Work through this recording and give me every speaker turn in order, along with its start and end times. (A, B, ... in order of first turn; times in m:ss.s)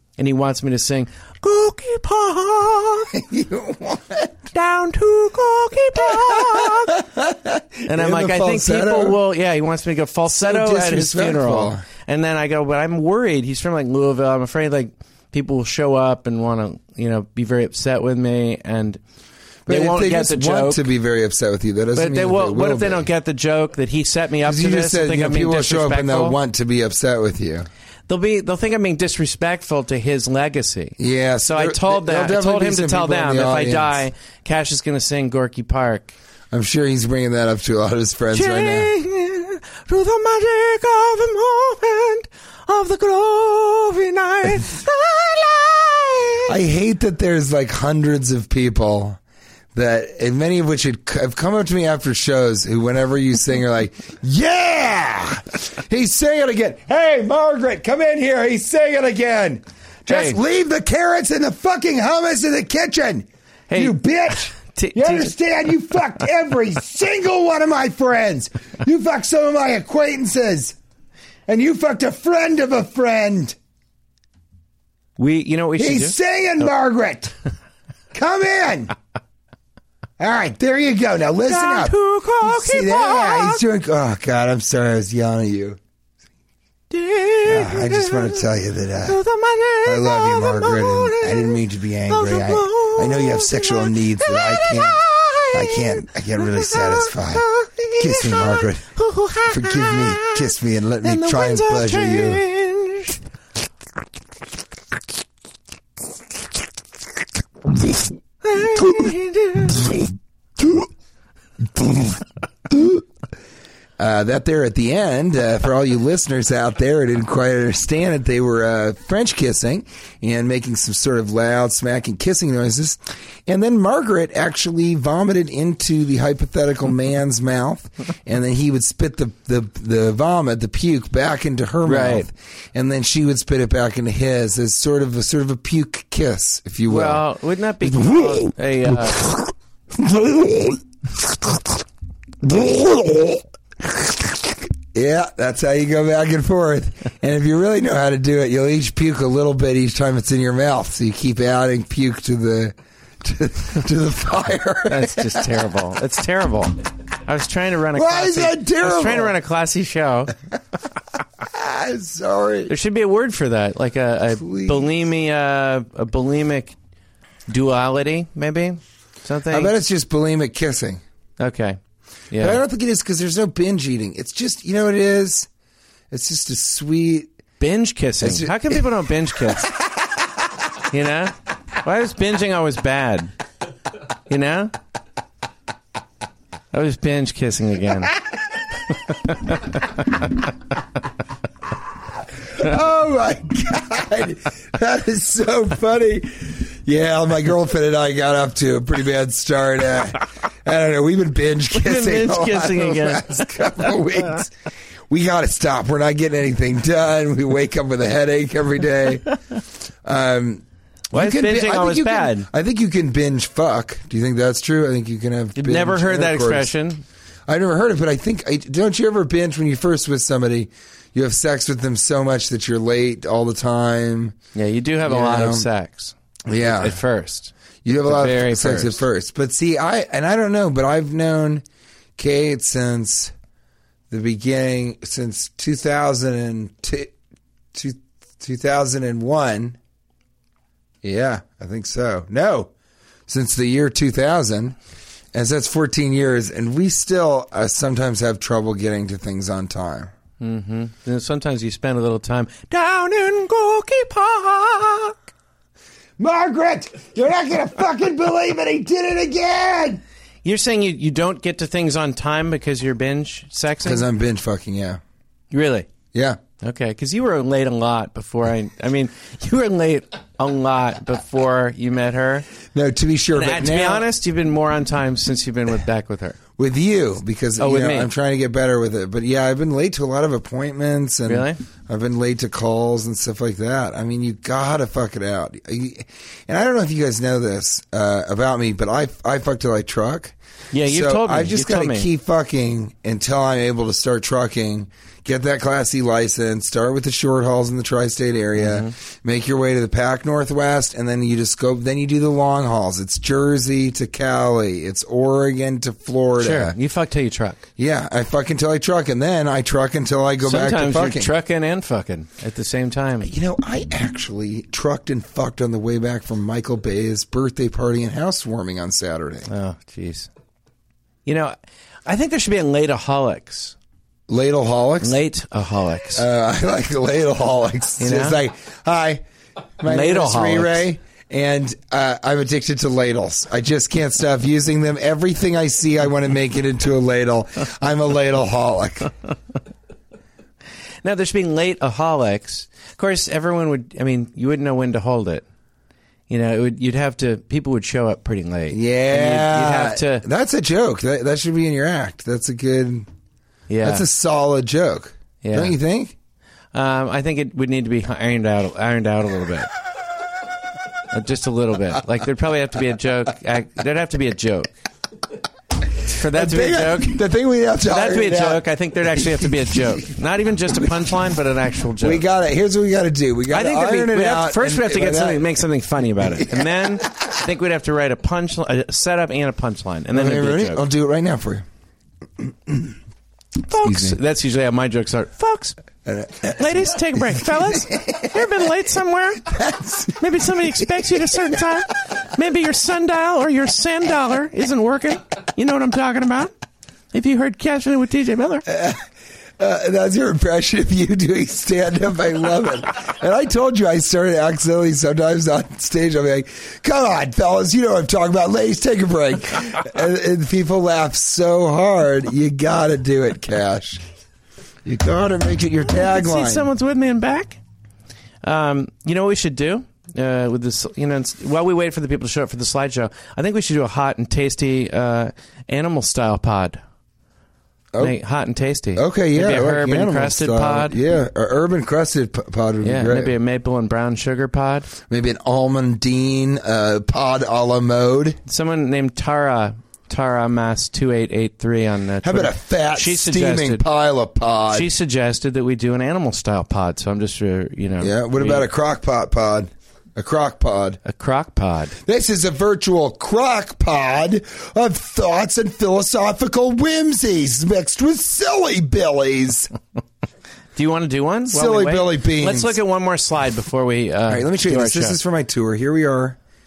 0:00.2-0:03.2 A
0:03.1-0:04.5 B
0:04.5-0:07.0 A
0:06.0-0:09.2 B
0:07.9-0:19.0 A
0:10.3-0:11.8 B
0:19.6-0:23.0 B
0:19.7-0:20.9 A
0:21.9-0:26.4 A
0:24.4-0:27.7 B
0:28.1-0:36.1 A
0:31.0-0:34.0 B
0:36.5-0:38.9 B
0:38.3-0:46.5 A
0:46.5-0:49.2 B
0:49.7-1:10.8 B
1:00.1-1:00.4 A
1:03.7-1:04.0 A
1:04.6-1:05.3 A
1:11.5-1:13.6 B
1:15.2-1:16.1 A
1:15.8-1:17.3 B
1:18.1-1:18.9 B
1:20.2-1:25.8 B
1:21.4-1:23.6 A
1:26.9-1:28.4 A
1:27.4-1:29.2 B
1:29.0-1:40.4 A
1:29.8-1:35.0 B
1:35.5-1:37.5 B
1:38.0-1:38.9 B
1:39.4-1:42.4 B
1:41.0-1:43.2 A
1:48.4-1:49.9 A
1:51.8-1:53.0 B
1:54.0-2:17.2 B
2:11.8-2:12.3 A
2:16.9-2:19.2 A
2:17.8-2:21.8 B
2:22.4-2:35.5 B
2:34.9-2:40.3 A
2:37.9-2:39.3 B
2:41.4-2:42.7 B
2:42.7-2:46.8 A
2:44.4-2:44.9 B
2:47.5-2:49.7 A
2:49.5-2:51.0 B
2:51.4-2:51.8 A
2:52.3-2:52.6 A
2:52.4-2:55.5 B
2:56.1-2:57.3 B
2:57.6-2:59.7 A
2:58.2-2:58.9 B
3:00.9-3:03.3 A
3:04.3-3:04.7 A
3:06.7-3:08.1 A
3:09.0-3:10.0 A
3:12.5-3:24.5 B
3:21.7-3:23.7 A
3:25.1-3:29.3 B
3:30.0-3:36.7 B
3:31.1-3:32.5 A
3:35.6-3:37.0 A
3:37.5-3:44.3 B
3:44.5-3:47.5 A
3:45.0-3:45.7 B
3:46.5-3:47.0 B
3:47.8-3:51.6 B
3:48.0-3:49.0 A
3:52.2-3:53.3 B
3:54.1-3:57.1 B
3:57.7-3:59.8 B
4:01.0-4:02.7 B
4:03.3-4:04.8 B
4:05.3-4:10.1 B
4:10.4-4:15.2 A
4:16.2-4:20.0 B
4:20.4-4:24.0 A
4:23.8-4:25.0 B
4:25.5-4:25.9 A
4:26.1-4:26.4 B
4:26.6-4:32.5 A
4:32.7-4:34.0 B
4:33.3-4:36.4 A
4:36.6-5:06.7 B
4:37.6-4:38.1 A
4:41.3-4:41.6 A
4:50.7-4:52.1 A
4:58.6-4:58.9 A
5:06.4-5:07.6 A
5:07.8-5:11.3 B
5:10.4-5:13.3 A
5:13.2-5:19.5 B
5:19.5-5:20.3 A
5:21.2-5:23.8 A
5:24.3-5:25.2 B
5:25.0-5:26.2 A
5:26.1-5:29.2 B
5:28.0-5:28.4 A
5:29.8-5:39.1 B
5:29.8-5:30.8 A
5:41.0-5:45.4 A
5:46.3-5:50.2 A
5:48.7-5:53.1 B
5:53.7-5:54.0 A
5:53.8-5:56.1 B
5:55.4-5:55.8 A
5:56.7-5:59.7 A
6:01.1-6:04.7 A
6:06.0-6:07.2 A
6:06.3-6:10.0 B
6:07.9-6:12.2 A
6:12.0-6:15.6 B
6:13.5-6:20.8 A
6:16.2-6:17.0 B
6:20.1-6:21.6 B
6:22.4-6:22.9 B
6:23.6-6:25.8 A
6:23.7-6:24.2 B
6:26.0-6:28.4 B
6:26.5-6:29.5 A
6:29.4-6:30.2 B
6:30.1-6:36.5 A
6:37.1-6:38.6 A
6:38.7-6:39.0 B
6:39.6-6:54.0 B
6:54.8-6:56.7 B
6:55.9-6:57.6 A
6:58.4-7:06.8 A
7:08.0-7:11.0 A
7:08.9-7:13.3 B
7:12.8-7:14.9 A
7:15.1-7:18.4 B
7:18.4-7:23.8 A
7:22.2-7:24.9 B
7:24.7-7:28.6 A
7:28.0-7:31.0 B
7:31.0-7:32.0 A
7:32.0-7:39.7 B
7:40.8-7:45.2 A
7:41.5-7:42.8 B
7:44.3-7:46.4 B